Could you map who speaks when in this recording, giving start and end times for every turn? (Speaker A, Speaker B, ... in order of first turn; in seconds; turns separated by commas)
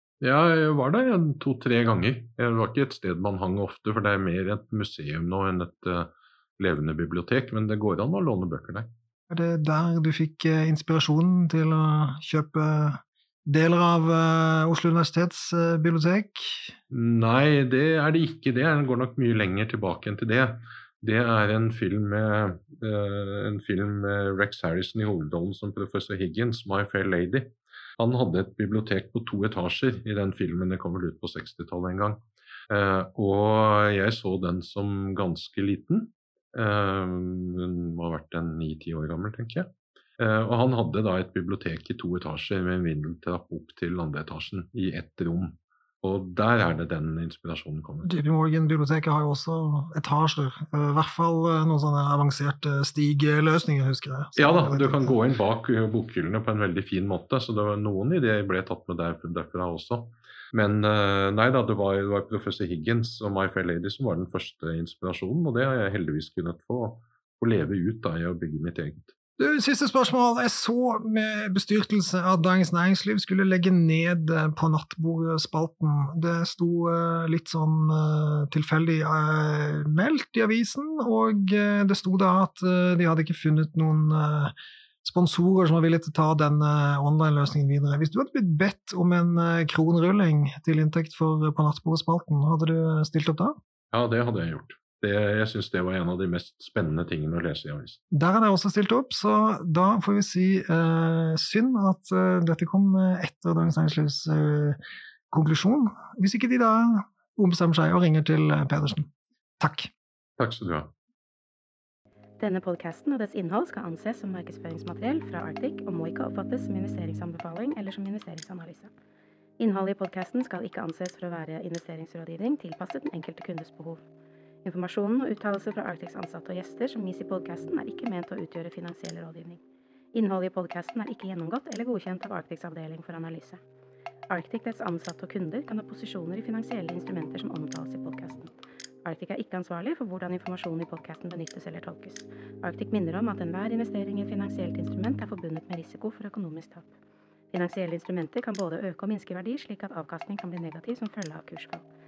Speaker A: 0.2-8.9, Speaker B: 9.3-16.7, Speaker A: 16.9-48.1, Speaker B: 48.0-55.1, Speaker A: 54.4-69.1, Speaker B: 69.4-93.5, Speaker A: 93.9-98.0, Speaker B: 98.1-104.8, Speaker B: 105.3-109.9, Speaker A: 110.4-110.9, Speaker C: 112.4-118.9, Speaker C: 119.6-124.0, Speaker C: 124.6-129.6, Speaker C: 130.1-133.6, Speaker C: 134.3-146.9, Speaker C: 147.5-151.8